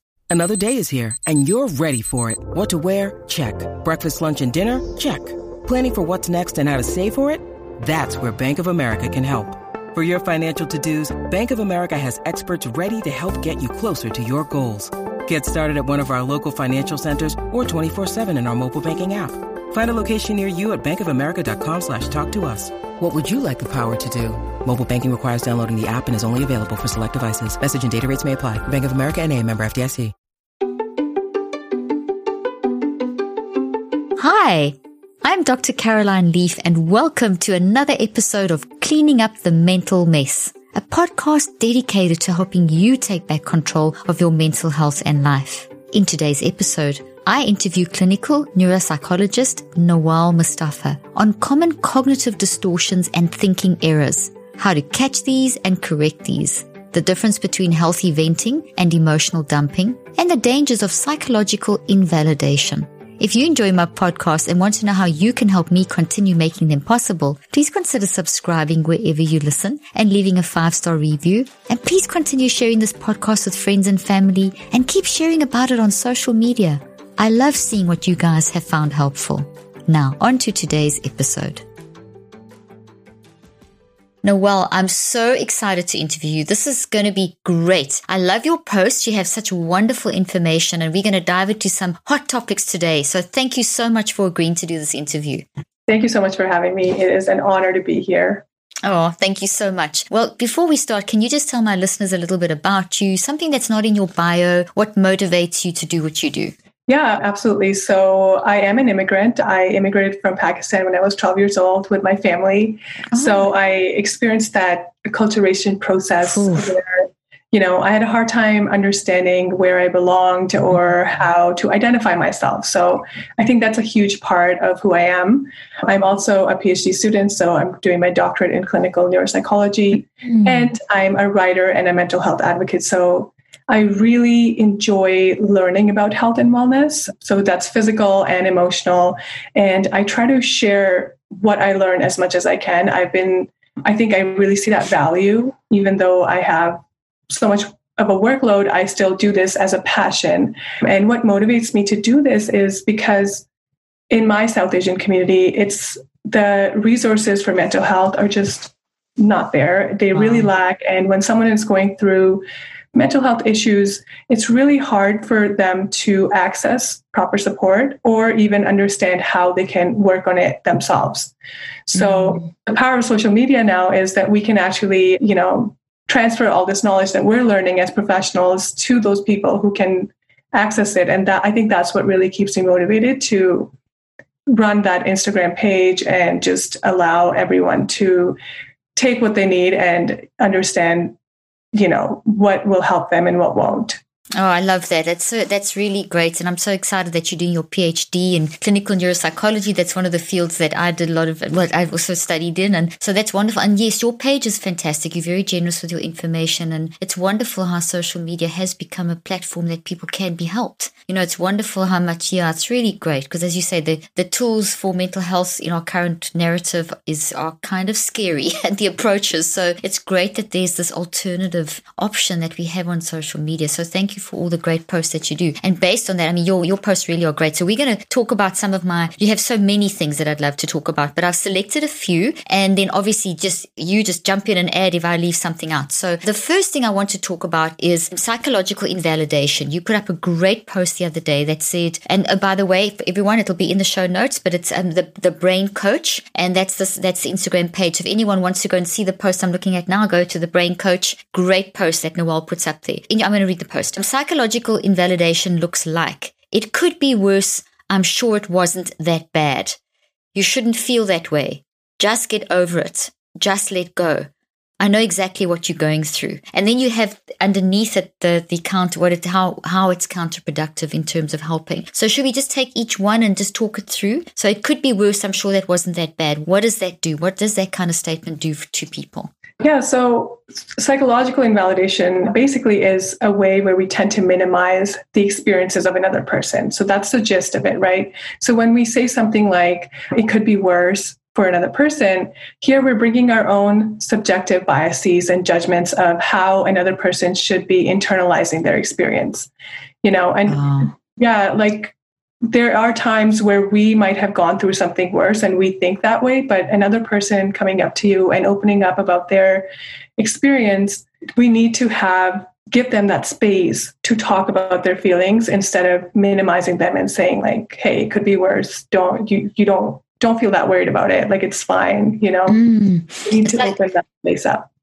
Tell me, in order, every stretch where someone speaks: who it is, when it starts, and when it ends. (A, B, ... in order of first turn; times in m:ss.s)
0:00.3-0:30.1 A
0:34.2-1:21.6 B
1:24.2-1:35.4 B
1:35.9-1:38.4 C
1:38.8-1:46.5 B
1:46.9-2:33.4 C
1:53.1-1:53.5 B
1:56.2-1:56.8 B
2:10.3-2:10.7 B
2:34.1-2:51.3 C
2:40.1-2:40.5 B
2:51.9-3:03.7 C
2:52.0-2:52.5 B
3:04.5-3:08.4 C
3:09.0-3:11.2 C
3:11.7-3:14.0 C
3:14.4-4:19.8 B
4:20.3-4:24.3 B
4:24.8-4:39.3 B
4:39.6-4:59.5 C
5:00.0-5:01.9 C
5:00.5-5:00.9 B
5:02.5-5:22.6 C
5:22.5-5:23.7 B
5:23.2-5:24.7 C